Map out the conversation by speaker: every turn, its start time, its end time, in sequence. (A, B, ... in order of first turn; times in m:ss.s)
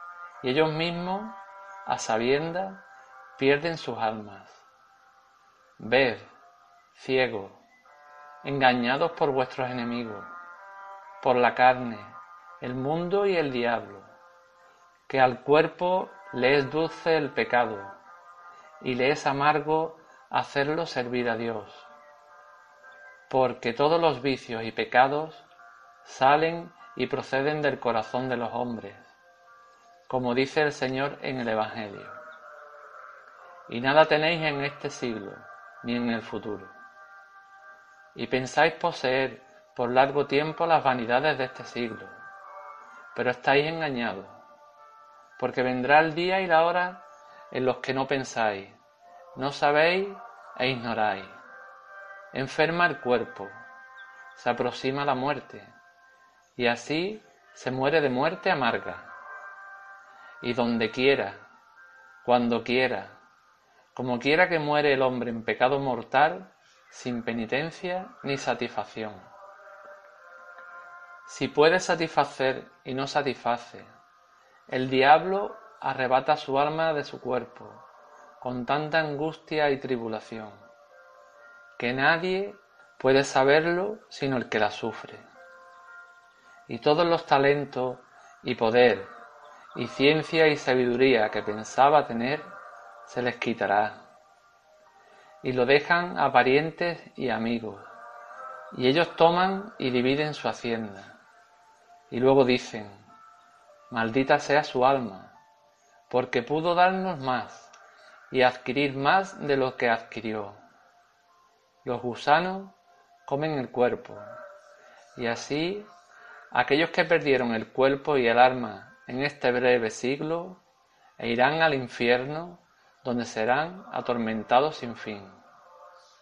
0:00.4-0:02.8 A
0:03.4-0:04.6 A
0:05.8-0:06.3 A
0:06.9-0:07.6 A
0:08.4-0:10.3 A
0:11.2-0:14.1 A
0:15.1-0:18.0 A
0:18.8-0:21.9 A
0:23.3-0:25.4 A
0:26.0-0:29.0 A
0:30.1-0:32.2 A
0:33.7-0:36.7 A
0:38.1-0:42.1 A
0:43.1-0:44.4 A
0:45.4-0:48.8 A
0:49.3-0:51.4 A
0:52.3-0:53.5 A
0:54.4-0:55.7 A
0:56.6-0:59.1 A
1:00.4-1:01.4 A
1:02.2-1:03.2 A
1:03.9-1:09.2 A
1:11.2-1:13.9 A
1:14.7-1:17.8 A
1:18.4-1:20.6 A
1:21.8-1:25.3 A
1:26.7-1:29.1 A
1:29.7-1:32.5 A
1:33.1-1:34.0 A
1:35.4-1:37.8 A
1:38.7-1:41.1 A
1:42.1-1:43.0 A
1:43.9-1:45.3 A
1:46.1-1:47.7 A
1:48.3-1:50.6 A
1:51.8-1:52.7 A
1:53.3-1:54.2 A
1:55.2-1:55.9 A
1:56.5-2:00.6 A
2:01.2-2:05.4 A